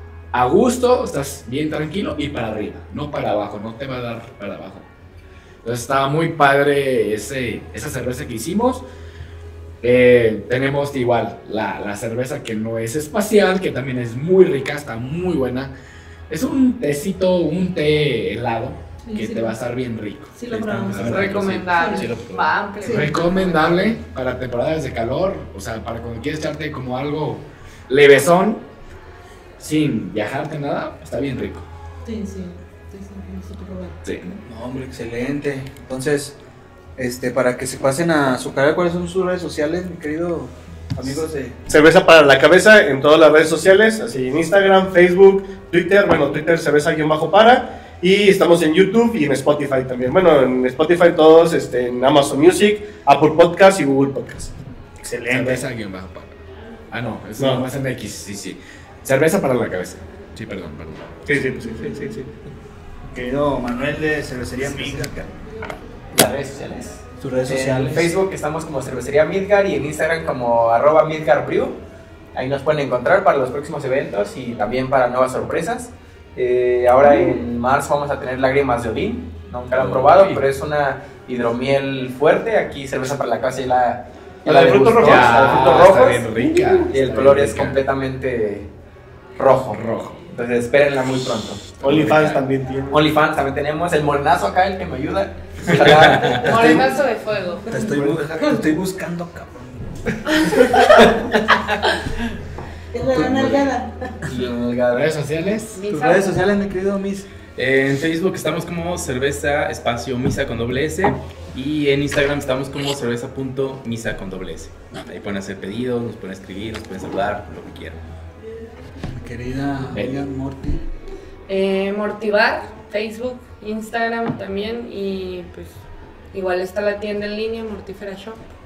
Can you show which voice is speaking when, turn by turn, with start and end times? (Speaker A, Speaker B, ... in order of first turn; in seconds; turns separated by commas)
Speaker A: 0.3-4.8, Speaker A: 5.6-8.8, Speaker A: 9.8-15.7, Speaker A: 16.3-21.7, Speaker B: 19.0-19.6, Speaker B: 20.3-21.1, Speaker C: 20.9-22.5, Speaker D: 21.1-24.0, Speaker B: 21.7-22.1, Speaker B: 22.8-23.1, Speaker A: 22.8-28.6, Speaker A: 29.6-31.6, Speaker B: 32.0-34.0, Speaker A: 34.0-34.4, Speaker E: 34.4-36.4, Speaker E: 37.0-41.6, Speaker F: 41.0-54.5, Speaker E: 55.0-55.6, Speaker A: 55.3-56.4, Speaker A: 56.9-61.1, Speaker F: 57.4-57.6, Speaker F: 61.2-62.3, Speaker E: 63.1-65.2, Speaker G: 66.1-71.8, Speaker E: 67.2-68.1, Speaker G: 72.3-86.2, Speaker C: 79.7-80.5, Speaker F: 84.5-86.7, Speaker A: 84.9-87.8, Speaker G: 86.9-88.7, Speaker G: 89.3-91.7, Speaker A: 89.7-90.2, Speaker A: 91.8-92.4, Speaker F: 91.8-93.0, Speaker G: 92.9-96.5, Speaker D: 96.4-97.7, Speaker E: 96.4-96.9, Speaker E: 97.7-100.0, Speaker F: 97.7-98.2, Speaker D: 100.4-101.0, Speaker B: 102.9-104.1, Speaker G: 104.2-105.1, Speaker A: 104.9-105.8, Speaker D: 105.7-106.3, Speaker E: 105.9-107.3, Speaker C: 107.5-118.0, Speaker E: 119.0-120.8, Speaker A: 119.9-120.2, Speaker D: 121.5-125.8, Speaker D: 126.3-128.4